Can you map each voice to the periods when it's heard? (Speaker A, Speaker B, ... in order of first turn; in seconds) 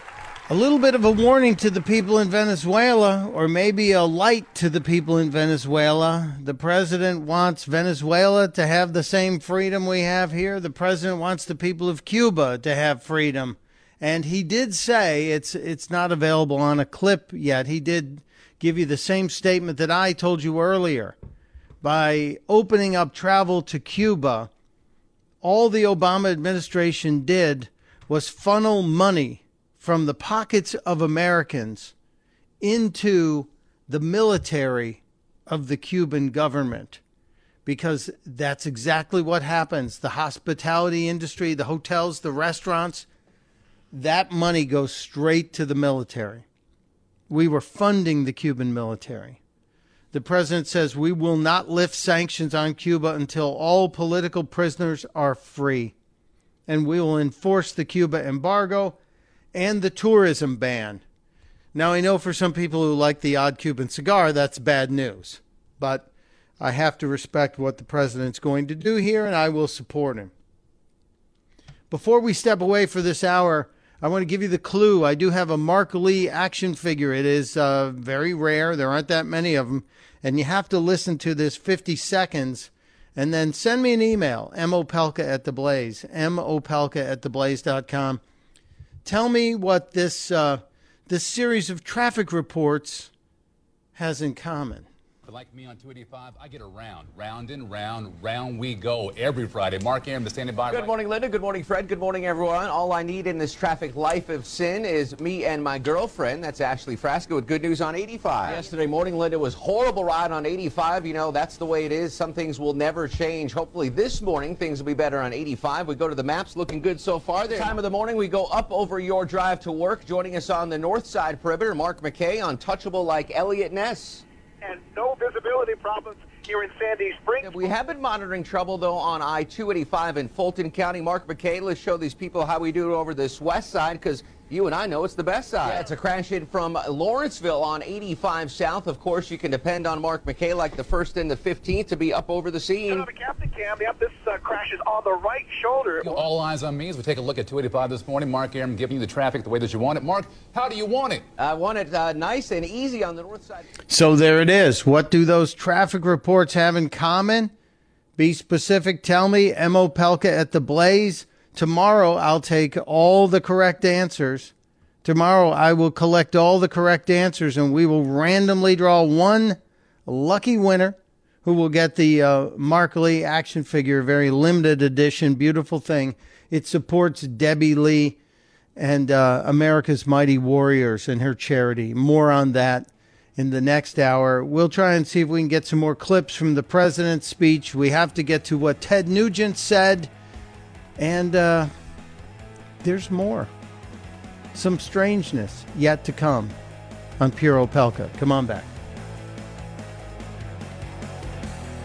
Speaker A: 0.5-21.2, 21.8-24.5, 25.4-31.9, 32.6-37.0, 37.7-43.1, 43.9-46.5, 47.3-49.4, 50.1-55.9, 56.7-59.0, 59.5-61.0, 61.7-66.1, 66.6-70.3, 71.9-88.2, 89.0-93.1, 94.0-94.9, 153.9-157.5, 158.2-164.5, 165.0-178.2, 178.8-190.1, 191.0-191.7, 192.8-193.5, 194.5-196.6, 197.2-198.7
Speaker B: 95.2-100.9, 146.0-151.3
Speaker C: 100.7-124.2, 127.4-143.1, 151.4-153.7
Speaker D: 124.6-127.7, 135.6-135.9, 142.9-146.2